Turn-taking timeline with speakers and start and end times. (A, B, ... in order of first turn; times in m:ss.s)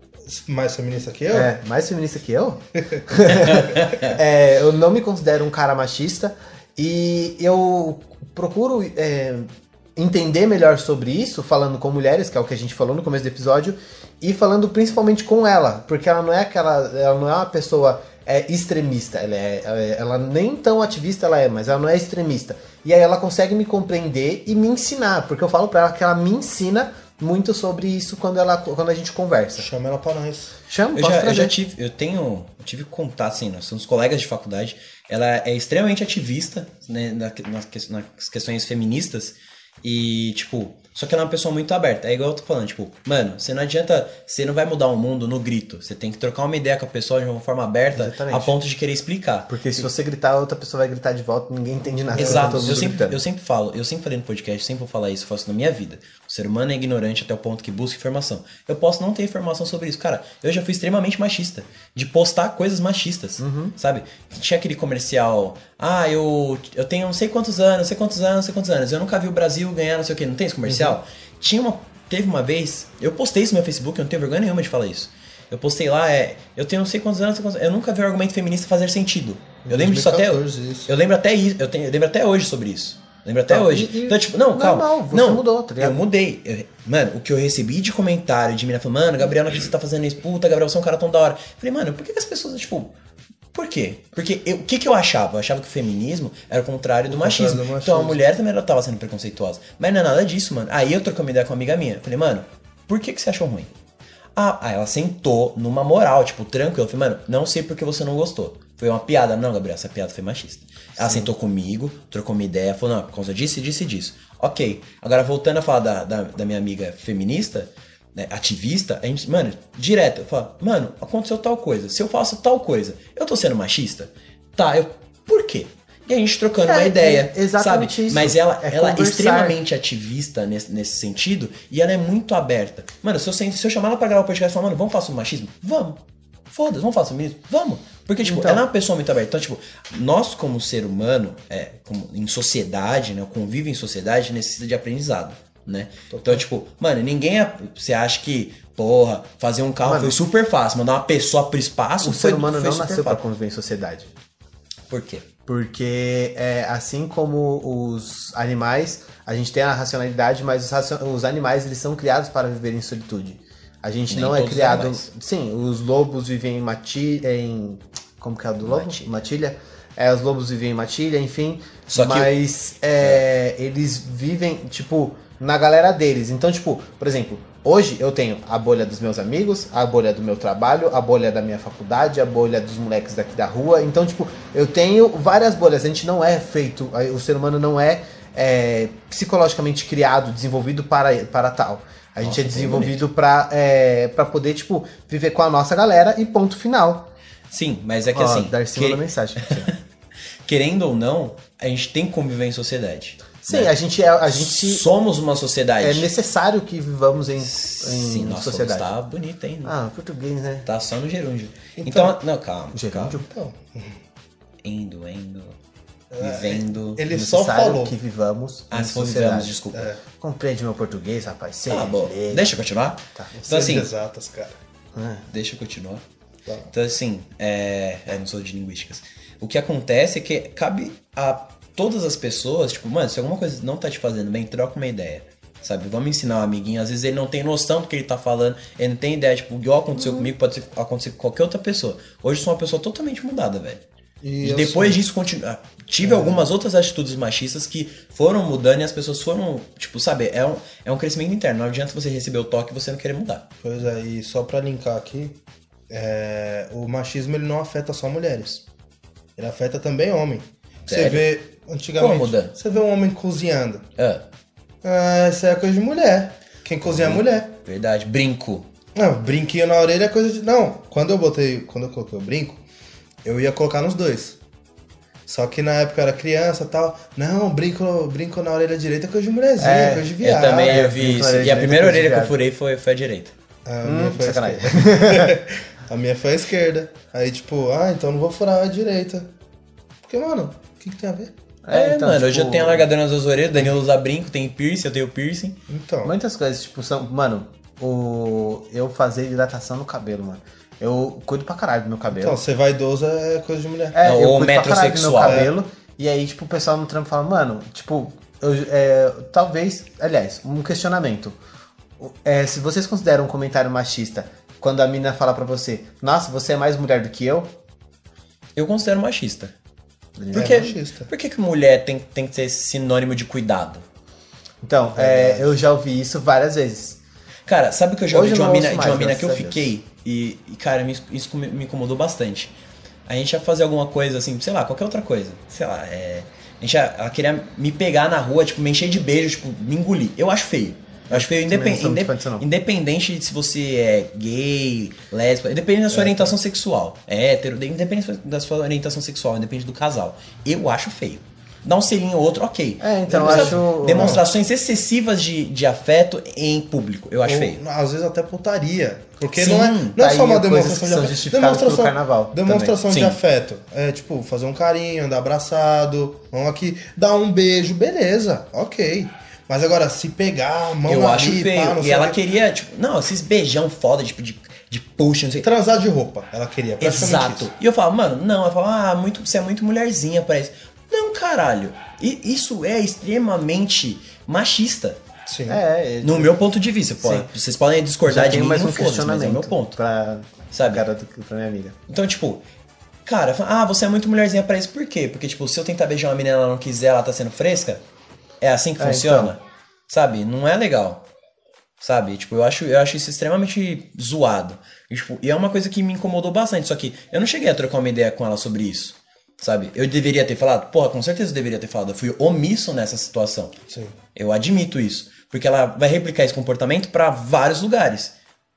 0:00.2-0:01.5 A
0:01.3-0:29.7 B
0:03.5-0:04.1 C
0:29.6-0:30.5 A
0:30.7-0:31.5 B
0:31.0-0:49.9 C
0:47.9-0:48.6 B
0:49.5-0:53.2 B
0:52.1-0:52.9 A
0:52.2-1:32.9 C
1:03.4-1:03.7 B
1:19.7-1:20.9 A
1:23.5-1:26.0 B
1:33.5-1:43.7 C
1:37.1-1:38.2 A
1:44.4-2:16.0 C
1:51.0-1:51.3 B
2:06.6-2:09.6 B
2:16.5-2:33.2 C
2:18.2-2:18.6 B
2:26.1-2:26.4 A
2:29.8-2:30.2 B
2:32.0-2:34.1 B
2:34.9-2:35.2 C
2:35.5-3:17.1 B
2:44.1-2:45.1 C
2:48.6-2:49.1 C
2:51.9-2:52.3 C
3:12.2-3:13.0 C
3:17.5-3:19.8 C
3:18.1-3:19.7 B
3:20.4-3:23.7 C
3:23.4-3:24.9 B
3:24.2-3:26.1 C
3:25.8-3:28.9 B
3:27.4-3:29.7 C
3:29.6-3:30.7 B
3:30.6-3:33.2 C
3:31.8-3:32.2 A
3:32.7-3:33.2 B
3:33.2-3:34.0 A
3:34.6-3:35.6 C
3:36.1-3:37.9 A
3:36.2-3:37.0 C
3:37.1-3:42.5 B
3:38.7-3:39.9 C
3:39.7-3:40.0 A
3:41.7-3:43.9 C
3:43.3-3:44.6 A
3:44.9-3:45.2 B
3:45.3-3:46.0 C
3:46.4-3:46.7 A
3:46.7-4:03.8 C
4:04.2-4:05.0 A
4:04.4-4:13.4 C
4:06.0-4:06.4 A
4:13.6-4:18.6 A
4:19.4-4:23.8 A
4:20.9-4:21.3 C
4:22.0-4:22.5 C
4:24.0-4:24.2 C
4:24.8-4:27.5 A
4:26.8-4:28.7 C
4:28.9-4:32.6 A
4:33.2-4:34.4 A
4:35.3-4:40.8 A
4:39.6-4:42.3 B
4:40.2-4:43.3 C
4:43.6-4:49.3 A
4:43.8-4:45.4 B
4:50.0-4:51.3 A
4:51.6-4:52.9 B
4:51.7-4:55.6 C
4:55.7-4:56.1 A
4:56.0-5:02.4 B
5:02.1-5:04.0 A
5:03.9-5:11.4 B
5:04.0-5:05.5 C
5:05.2-5:05.5 A
5:12.0-5:17.5 B
5:18.6-5:19.5 C
5:20.2-5:20.7 B
5:20.3-5:21.1 A
5:20.3-5:23.8 C
5:24.6-5:27.0 B
5:25.0-5:25.5 A
5:27.5-5:32.5 C
5:28.1-5:29.7 B
5:33.1-5:57.6 C
5:41.1-5:42.5 B
5:45.9-5:46.4 A
5:52.8-5:54.2 B
5:53.1-5:54.2 A
5:57.2-6:12.2 A
5:59.4-6:00.0 C
6:00.0-6:02.8 B
6:02.9-6:03.2 C
6:10.8-6:15.5 C
6:15.4-6:17.5 A
6:16.8-6:25.0 C
6:25.3-6:25.6 A
6:25.5-6:26.4 B
6:26.0-6:29.8 C
6:27.0-6:27.3 B
6:28.0-6:31.8 B
6:30.5-6:30.8 C
6:31.9-6:32.4 C
6:33.0-6:37.8 C
6:38.4-6:41.0 C
6:38.8-6:39.4 B
6:41.8-6:53.5 C
6:53.7-6:54.0 A
6:54.1-6:58.1 C